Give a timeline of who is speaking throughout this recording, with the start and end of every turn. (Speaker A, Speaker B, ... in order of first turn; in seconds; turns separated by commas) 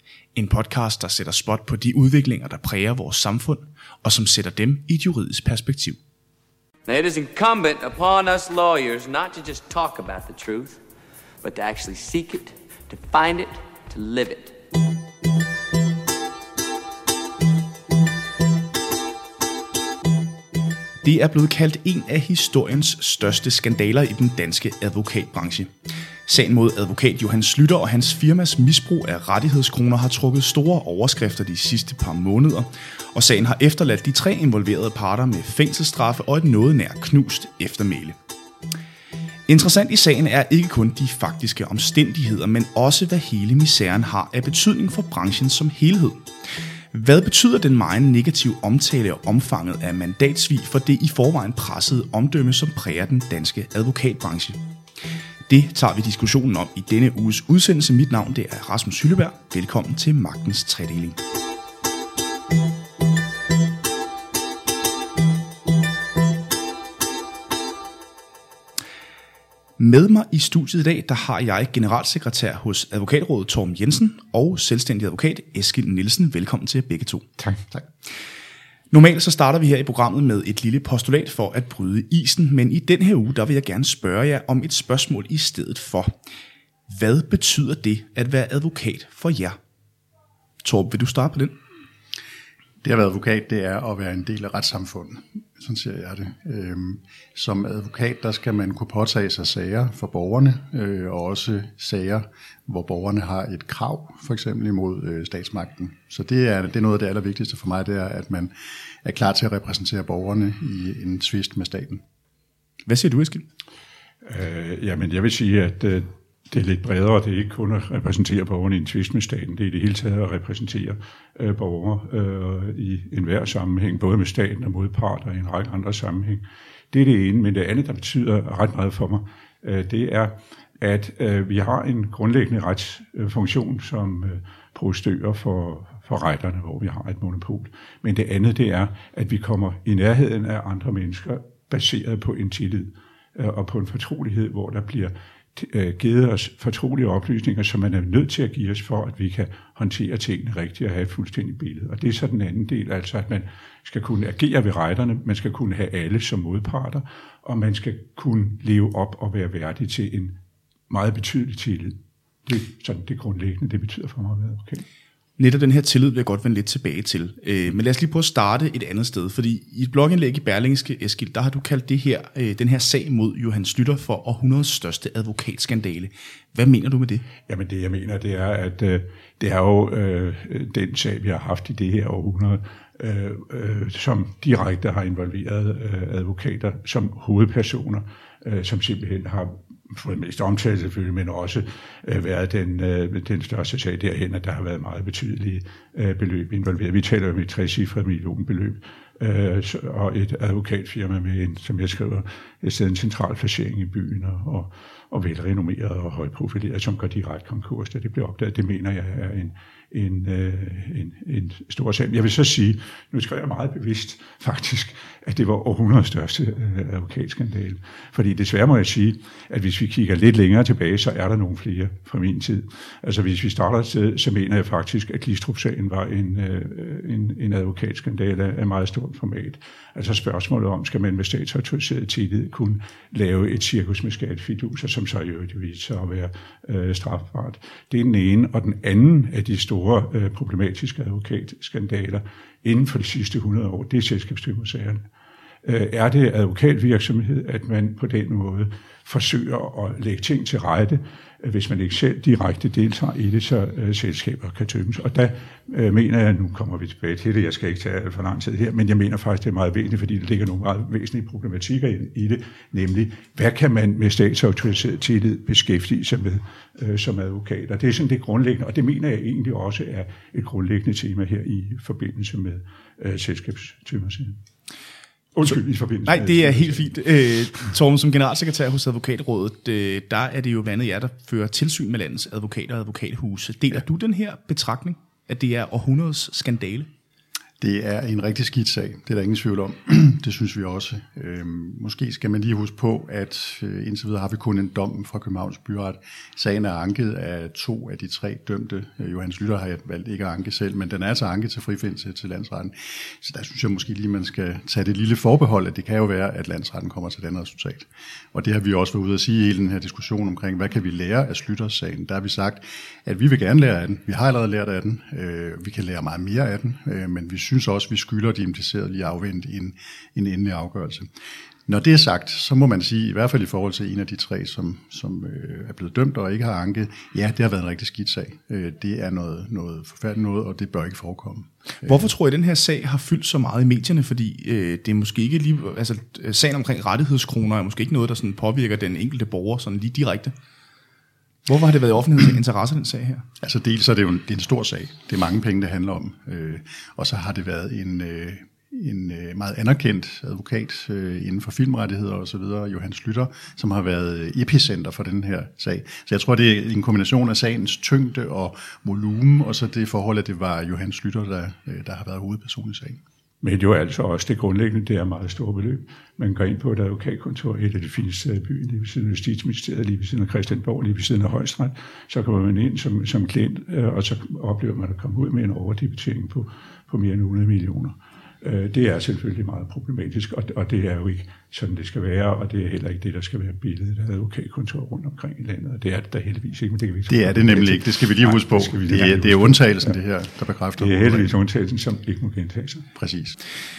Speaker A: 0.3-6.0, Speaker B: 6.8-10.8, Speaker B: 11.4-14.6, Speaker A: 21.0-25.7, Speaker A: 26.2-38.2, Speaker A: 39.5-46.3, Speaker A: 46.9-54.6, Speaker A: 55.5-61.2, Speaker A: 69.8-77.3, Speaker A: 78.9-86.1, Speaker A: 86.9-89.6, Speaker A: 90.6-91.6, Speaker C: 92.8-108.5, Speaker C: 109.0-112.0, Speaker A: 112.9-113.5, Speaker D: 114.2-160.3, Speaker D: 160.9-164.8, Speaker A: 165.4-177.2, Speaker D: 177.5-245.0, Speaker D: 245.6-274.4, Speaker D: 275.3-276.9, Speaker A: 275.5-286.9, Speaker C: 287.6-321.1, Speaker C: 321.7-332.1, Speaker A: 331.8-340.3, Speaker A: 341.4-343.2, Speaker C: 343.4-363.0, Speaker D: 363.4-389.9, Speaker C: 387.1-391.3, Speaker D: 390.8-392.9, Speaker C: 392.9-393.4